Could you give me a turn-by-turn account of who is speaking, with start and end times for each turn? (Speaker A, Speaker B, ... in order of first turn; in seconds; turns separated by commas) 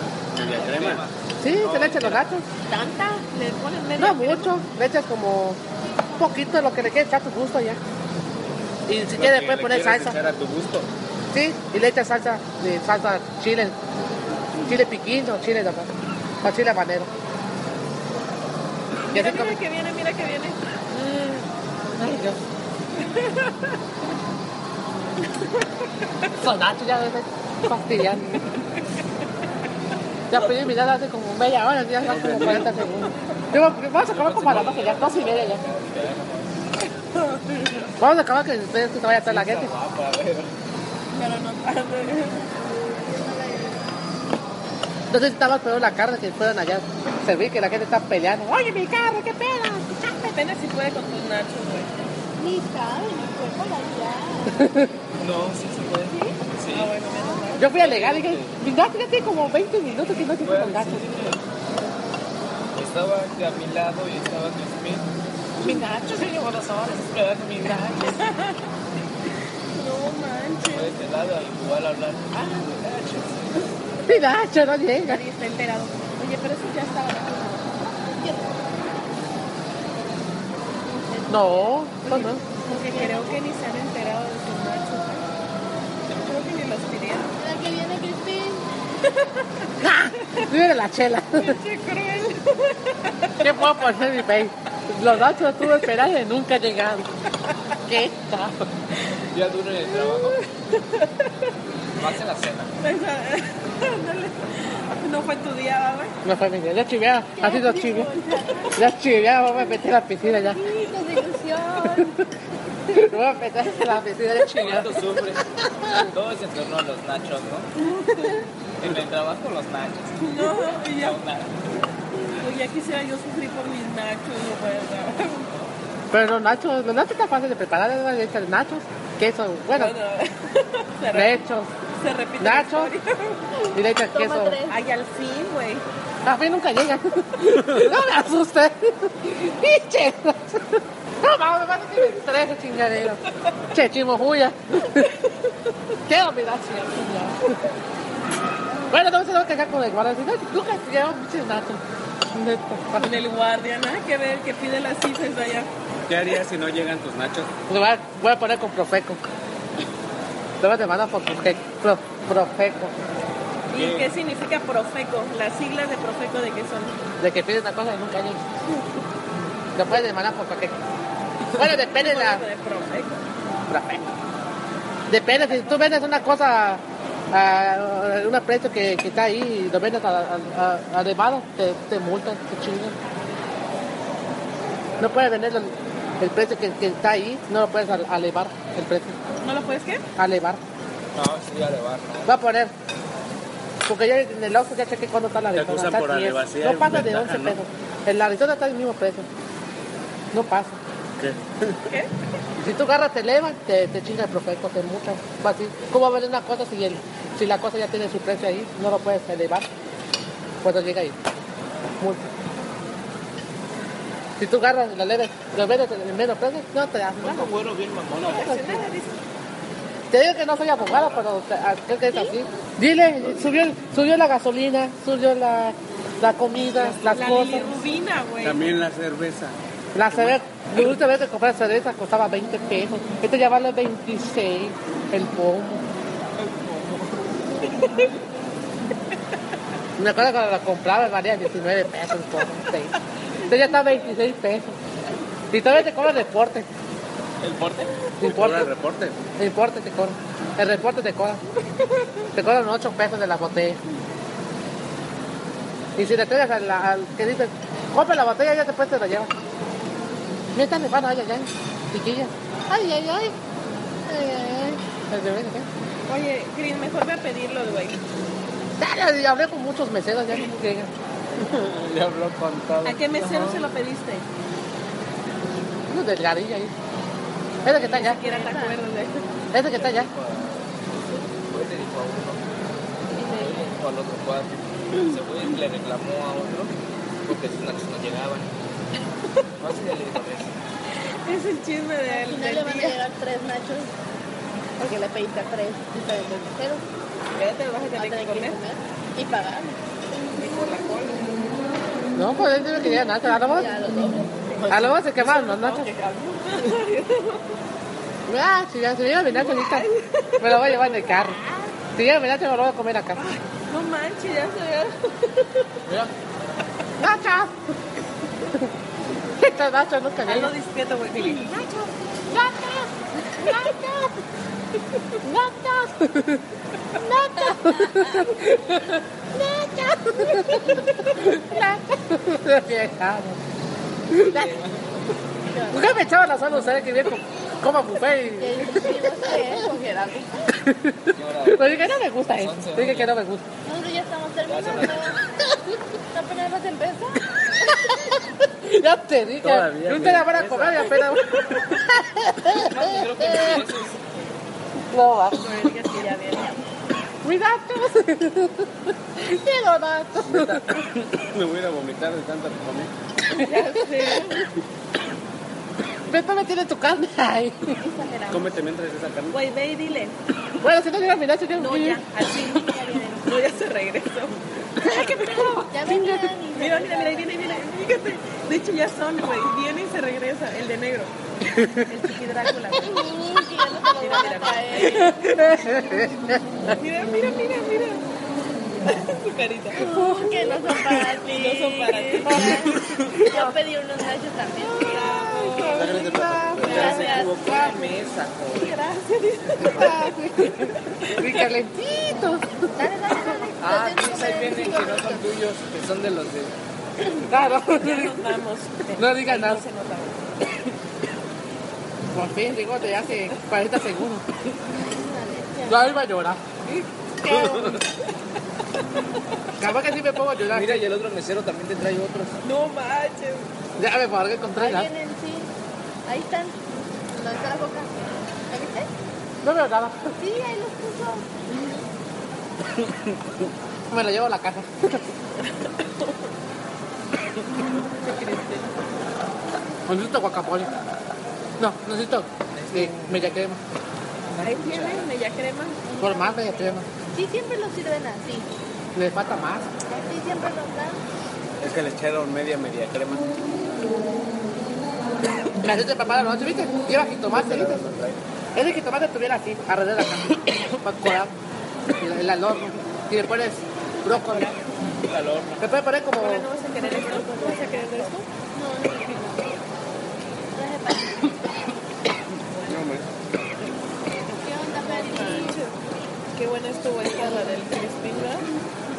Speaker A: 0.3-1.0, Speaker B: 0.5-2.2, Speaker C: 1.4-2.5, Speaker D: 2.7-3.3, Speaker E: 3.3-4.5, Speaker C: 4.0-5.6, Speaker C: 6.2-7.8, Speaker C: 8.9-10.2, Speaker A: 9.2-10.9, Speaker C: 11.3-13.8, Speaker C: 14.7-15.9, Speaker C: 16.4-17.1, Speaker E: 19.1-20.6, Speaker C: 19.1-19.6, Speaker C: 20.9-22.4, Speaker E: 23.0-23.5, Speaker C: 26.4-28.4, Speaker C: 30.3-35.6, Speaker A: 32.1-32.8, Speaker B: 32.2-32.7, Speaker B: 34.0-36.6, Speaker E: 37.2-37.7, Speaker C: 38.0-39.7, Speaker B: 39.2-40.5, Speaker E: 41.1-42.4, Speaker D: 42.7-43.8, Speaker C: 45.1-50.4, Speaker E: 50.3-51.9, Speaker D: 52.4-54.7, Speaker B: 55.2-57.0, Speaker D: 56.1-56.4, Speaker E: 56.7-57.9, Speaker D: 57.0-57.6, Speaker C: 57.6-61.2, Speaker B: 57.7-58.6, Speaker B: 60.4-61.4, Speaker B: 62.8-65.1, Speaker C: 65.6-68.2, Speaker B: 67.1-68.0, Speaker E: 68.0-68.6, Speaker E: 69.8-70.9, Speaker B: 70.7-73.6, Speaker C: 74.1-75.2, Speaker E: 75.0-77.7, Speaker D: 78.1-78.5, Speaker D: 81.1-83.4, Speaker C: 81.3-82.4, Speaker E: 82.9-85.3, Speaker E: 86.1-87.3, Speaker D: 87.4-88.7, Speaker C: 89.8-91.6, Speaker E: 91.3-94.0, Speaker C: 93.4-97.1, Speaker C: 97.8-98.7, Speaker B: 99.3-100.4, Speaker E: 99.8-101.5, Speaker B: 101.9-102.7, Speaker E: 102.8-106.2, Speaker C: 106.2-108.1, Speaker D: 107.4-108.9, Speaker C: 108.8-110.6, Speaker D: 109.7-112.2, Speaker C: 111.8-112.1, Speaker C: 112.9-115.2, Speaker B: 114.5-115.4, Speaker C: 115.8-116.1, Speaker B: 116.1-117.7, Speaker B: 118.8-121.6, Speaker E: 120.2-121.2, Speaker E: 122.4-125.5, Speaker C: 126.1-129.9, Speaker E: 129.8-131.4, Speaker C: 131.1-131.7, Speaker E: 132.0-133.5, Speaker C: 132.4-132.9, Speaker C: 133.7-134.6, Speaker D: 134.1-134.8, Speaker E: 134.7-135.8, Speaker C: 136.2-143.2, Speaker C: 143.7-145.1, Speaker C: 146.1-147.5, Speaker C: 148.9-151.8, Speaker C: 152.3-153.2, Speaker E: 152.9-155.7, Speaker A: 156.1-157.5, Speaker C: 157.7-159.2, Speaker C: 160.6-162.9, Speaker E: 163.7-167.0, Speaker B: 163.7-164.1, Speaker C: 167.2-168.4, Speaker C: 169.8-170.8, Speaker C: 171.6-172.5, Speaker E: 171.8-173.2, Speaker C: 173.7-174.1, Speaker C: 175.1-183.0, Speaker C: 185.0-189.2, Speaker E: 189.4-190.1, Speaker C: 190.2-190.6, Speaker B: 191.2-192.3, Speaker C: 192.2-192.7, Speaker C: 193.9-199.3, Speaker A: 195.6-197.6, Speaker C: 200.3-200.8, Speaker A: 201.2-201.9, Speaker C: 202.6-209.7, Speaker C: 210.6-211.2, Speaker C: 212.0-212.3, Speaker C: 214.4-217.6, Speaker B: 217.2-218.8, Speaker C: 218.1-218.9, Speaker E: 218.3-219.2, Speaker C: 220.1-227.8, Speaker E: 226.8-228.7, Speaker A: 228.4-229.6, Speaker C: 229.9-235.8, Speaker A: 230.1-230.4, Speaker B: 236.4-237.3, Speaker E: 237.6-238.2, Speaker C: 240.0-242.9, Speaker C: 243.5-244.8, Speaker C: 245.5-246.7, Speaker B: 247.4-248.0, Speaker C: 248.2-248.7, Speaker A: 248.2-249.2, Speaker C: 249.4-251.4, Speaker C: 252.4-253.8, Speaker C: 256.0-259.3, Speaker C: 260.6-263.4, Speaker C: 264.1-265.7, Speaker E: 266.1-268.0, Speaker C: 268.8-270.9, Speaker A: 271.4-273.6, Speaker E: 272.8-274.2, Speaker C: 275.9-276.7, Speaker C: 277.6-278.2, Speaker E: 277.7-279.2, Speaker D: 277.9-278.8, Speaker C: 279.5-280.1, Speaker B: 279.6-280.7, Speaker B: 281.5-282.4, Speaker E: 283.2-283.7, Speaker B: 283.3-286.7, Speaker B: 287.2-288.5, Speaker B: 289.6-290.5, Speaker E: 291.2-293.0, Speaker D: 292.1-293.9, Speaker D: 294.8-296.8, Speaker E: 297.4-298.6, Speaker D: 298.0-299.8, Speaker E: 300.4-301.2, Speaker C: 302.1-303.7, Speaker D: 302.9-304.9, Speaker C: 304.7-305.9, Speaker E: 304.7-307.6, Speaker C: 308.3-309.9, Speaker E: 309.3-310.9, Speaker C: 310.4-311.4, Speaker D: 311.1-311.7, Speaker C: 312.0-313.2, Speaker E: 313.2-315.8, Speaker C: 315.9-316.1, Speaker C: 317.0-317.7, Speaker C: 319.4-320.5, Speaker E: 320.2-321.5, Speaker C: 321.2-321.7, Speaker D: 321.4-321.9, Speaker C: 322.3-324.1, Speaker C: 325.2-326.4, Speaker C: 326.9-333.4, Speaker D: 327.8-328.1, Speaker D: 330.0-330.9, Speaker B: 334.2-334.9, Speaker D: 335.5-335.9, Speaker C: 335.7-339.5, Speaker D: 338.4-340.5, Speaker C: 340.6-343.4, Speaker B: 341.1-343.1, Speaker D: 343.6-345.2, Speaker B: 344.5-345.1, Speaker D: 346.1-347.9, Speaker C: 347.9-353.6, Speaker A: 349.4-350.9, Speaker B: 352.5-354.1, Speaker C: 354.9-355.7, Speaker E: 355.4-356.6, Speaker C: 357.2-360.8, Speaker A: 360.3-362.9, Speaker E: 363.3-364.5, Speaker C: 366.1-367.8, Speaker D: 367.8-368.6, Speaker A: 368.3-369.4, Speaker E: 369.3-370.1, Speaker C: 370.6-372.0, Speaker E: 371.6-375.2, Speaker D: 372.5-373.3, Speaker C: 374.8-376.4, Speaker D: 374.9-377.6, Speaker E: 376.5-381.1, Speaker E: 381.7-383.1, Speaker D: 382.8-385.2, Speaker E: 384.0-385.1, Speaker C: 385.2-386.4, Speaker E: 386.8-388.0, Speaker E: 388.9-389.9, Speaker D: 389.8-396.0, Speaker C: 389.9-390.4, Speaker E: 391.2-392.4, Speaker C: 392.3-392.8, Speaker A: 392.7-393.2, Speaker E: 394.6-396.1, Speaker C: 395.6-397.6, Speaker A: 395.7-396.9, Speaker B: 396.5-398.8, Speaker D: 396.7-397.6, Speaker E: 396.7-397.6, Speaker E: 398.5-401.4, Speaker C: 399.6-402.7, Speaker D: 402.8-405.2, Speaker B: 403.6-406.5, Speaker C: 407.3-408.3, Speaker E: 407.3-410.2, Speaker C: 409.0-409.6, Speaker C: 412.1-414.2, Speaker D: 414.7-415.8, Speaker C: 415.7-416.4, Speaker D: 417.3-417.7, Speaker C: 417.3-417.7, Speaker C: 419.6-420.9, Speaker B: 420.4-422.4, Speaker E: 422.4-423.5, Speaker C: 423.8-424.9, Speaker D: 424.6-425.5, Speaker D: 426.1-426.6, Speaker D: 427.1-427.9, Speaker D: 428.5-428.9, Speaker C: 429.4-430.1, Speaker D: 430.2-431.7, Speaker A: 432.8-433.1, Speaker C: 433.9-435.1, Speaker E: 435.4-436.3, Speaker E: 437.8-438.7, Speaker C: 439.9-440.7, Speaker C: 441.6-443.6, Speaker B: 442.5-443.4, Speaker B: 444.3-445.1, Speaker E: 444.4-446.0, Speaker D: 445.9-448.5, Speaker C: 446.0-446.9, Speaker C: 448.9-449.7, Speaker D: 449.9-451.0, Speaker A: 451.6-453.4, Speaker C: 455.6-457.9, Speaker A: 457.3-458.2, Speaker C: 458.5-461.3, Speaker C: 462.0-464.5, Speaker E: 464.1-464.6, Speaker B: 465.0-465.6, Speaker C: 465.6-466.5, Speaker E: 466.2-468.3, Speaker D: 466.5-469.6, Speaker D: 470.5-471.7, Speaker D: 472.5-472.8, Speaker A: 472.6-473.1, Speaker D: 474.2-475.6, Speaker E: 474.8-475.8, Speaker E: 476.4-478.5